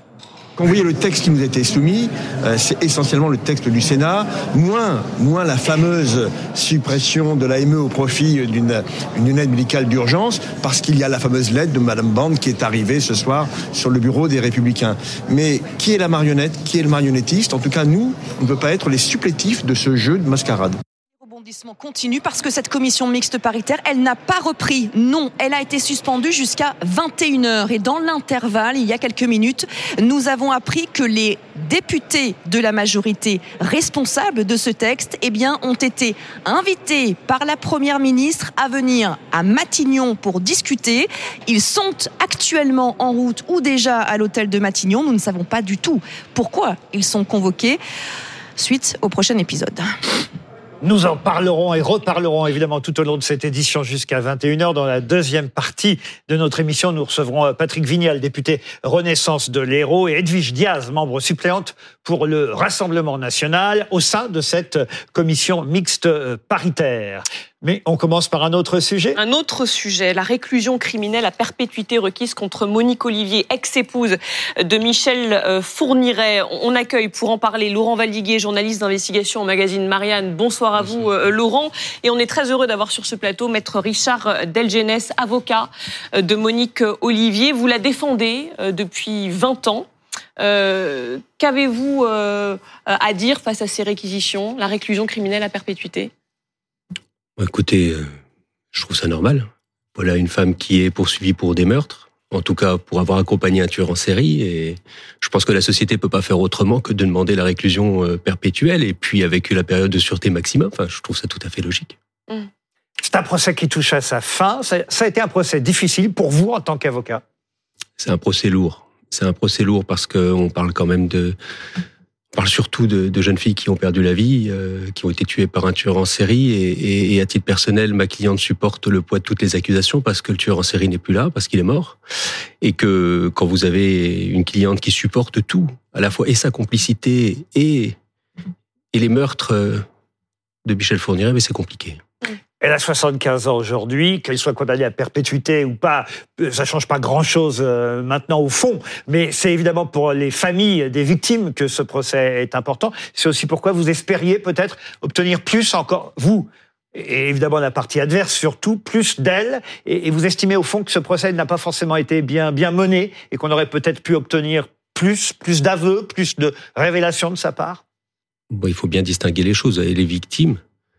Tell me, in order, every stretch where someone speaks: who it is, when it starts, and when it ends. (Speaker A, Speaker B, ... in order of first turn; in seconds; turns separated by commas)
Speaker A: 0.6-20.8, Speaker B: 21.2-47.8, Speaker B: 48.6-49.9, Speaker C: 50.8-69.2, Speaker D: 69.2-96.1, Speaker E: 97.4-98.1, Speaker E: 98.7-111.9, Speaker C: 113.0-117.2, Speaker E: 118.0-121.4, Speaker E: 122.3-132.0, Speaker E: 132.6-138.0, Speaker E: 138.9-139.8, Speaker E: 140.6-142.0, Speaker C: 142.6-167.8, Speaker E: 168.5-170.6